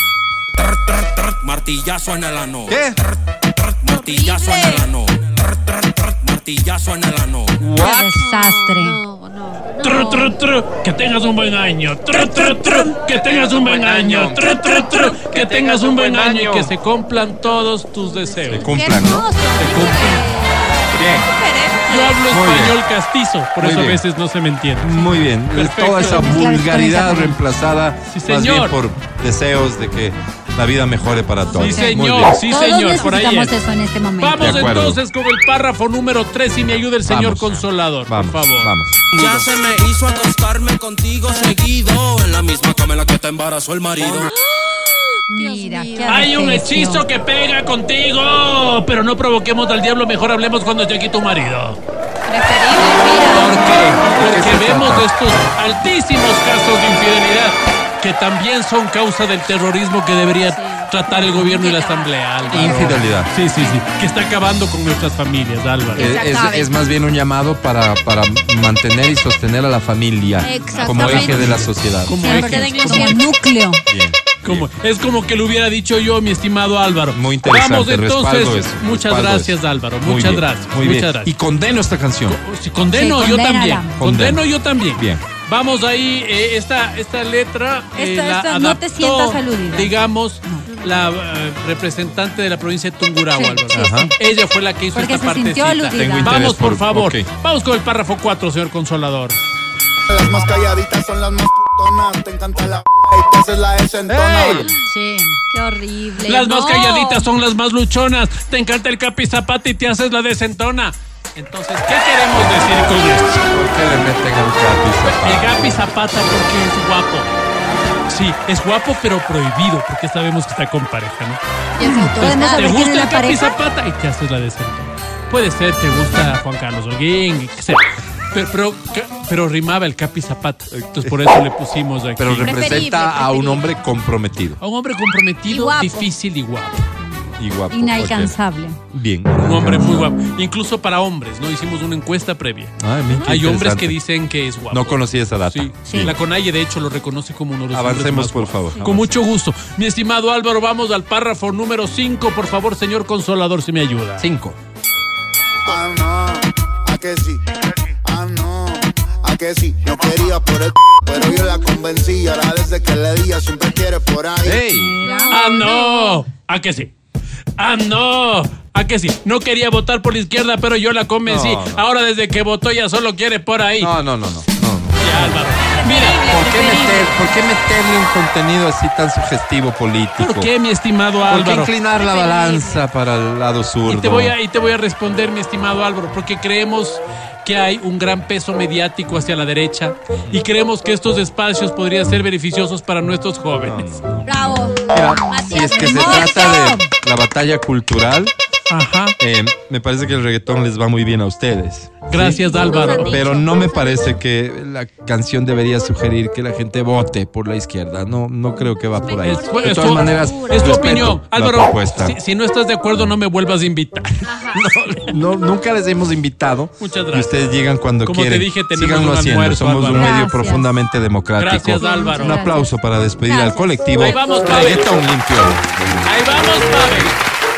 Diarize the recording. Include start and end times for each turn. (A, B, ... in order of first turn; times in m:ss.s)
0:00.6-0:07.7 A
0:02.7-0:03.0 B
0:03.9-0:04.9 C
0:07.6-0:08.1 B
0:07.8-0:10.4 C
0:07.8-0:09.0 D
0:09.8-0:18.8 E
0:12.1-0:16.7 B
0:18.0-0:22.2 C
0:18.6-0:19.3 B
0:19.5-0:20.3 E
0:20.9-0:21.3 B
0:21.8-0:26.4 E
0:22.3-0:22.8 B
0:23.6-0:24.0 B
0:24.8-0:32.4 B
0:26.2-0:27.4 D
0:28.1-0:28.8 E
0:31.5-0:33.6 E
0:31.6-0:34.6 D
0:34.2-0:39.4 E
0:34.4-0:35.0 B
0:37.0-0:39.0 B
0:39.1-0:44.3 A
0:44.0-0:44.8 C
0:45.3-0:47.0 D
0:45.3-0:46.4 C
0:46.1-0:51.8 E
0:52.3-0:53.6 C
0:52.8-0:53.5 D
0:53.2-1:06.1 E
0:54.1-0:55.1 B
1:00.6-1:03.8 C
1:02.5-1:03.3 B
1:06.0-1:12.7 B
1:06.0-1:06.8 C
1:10.4-1:11.5 C
1:10.8-1:13.3 E
1:12.2-1:13.8 D
1:12.2-1:13.3 C
1:13.9-1:14.7 B
1:14.4-1:21.3 E
1:17.1-1:22.4 B
1:22.3-1:39.4 E
1:22.9-1:24.0 D
1:24.0-1:25.2 B
1:28.0-1:30.7 D
1:33.3-1:34.1 D
1:33.7-1:34.1 B
1:34.9-1:36.4 D
1:35.9-1:37.3 B
1:40.1-1:44.7 F
1:44.1-1:44.7 B
1:44.9-1:45.4 D
1:45.5-1:47.3 C
1:46.2-1:53.5 E
1:53.5-1:55.8 B
1:55.0-1:57.3 E
1:58.1-2:12.9 E
2:01.8-2:02.7 C
2:01.8-2:03.5 D
2:10.7-2:11.3 B
2:12.2-2:14.6 B
2:12.4-2:13.7 C
2:14.6-2:16.9 E
2:15.5-2:16.1 C
2:17.4-2:18.4 B
2:17.7-2:18.8 D
2:18.9-2:20.1 B
2:19.4-2:34.3 E
2:22.8-2:24.0 B
2:24.7-2:26.1 B
2:27.7-2:29.2 B
2:34.2-2:34.6 B
2:35.6-2:44.7 F
2:44.4-2:45.0 B
2:44.7-2:45.4 D
2:45.0-2:46.2 C
2:45.3-2:46.9 E
2:47.6-2:54.0 E
2:51.3-2:51.9 B
2:53.8-2:55.4 B
2:55.0-2:56.3 E
2:55.9-2:57.1 C
2:56.2-3:00.5 B
3:00.2-3:01.7 E
3:01.2-3:04.4 B
3:01.9-3:02.8 C
3:03.9-3:13.9 E
3:13.6-3:18.3 B
3:14.2-3:16.8 C
3:15.8-3:16.7 D
3:18.7-3:19.2 E
3:19.2-3:32.2 B
3:22.1-3:23.3 E
3:22.4-3:24.2 C
3:29.0-3:31.0 C
3:29.2-3:34.5 E
3:34.3-3:34.6 C
3:34.6-3:45.6 B
3:36.8-3:40.2 E
3:39.9-3:40.7 D
3:41.4-3:42.5 E
3:41.8-3:42.8 D
3:43.3-3:43.8 C
3:44.0-3:45.0 E
3:46.0-3:47.2 E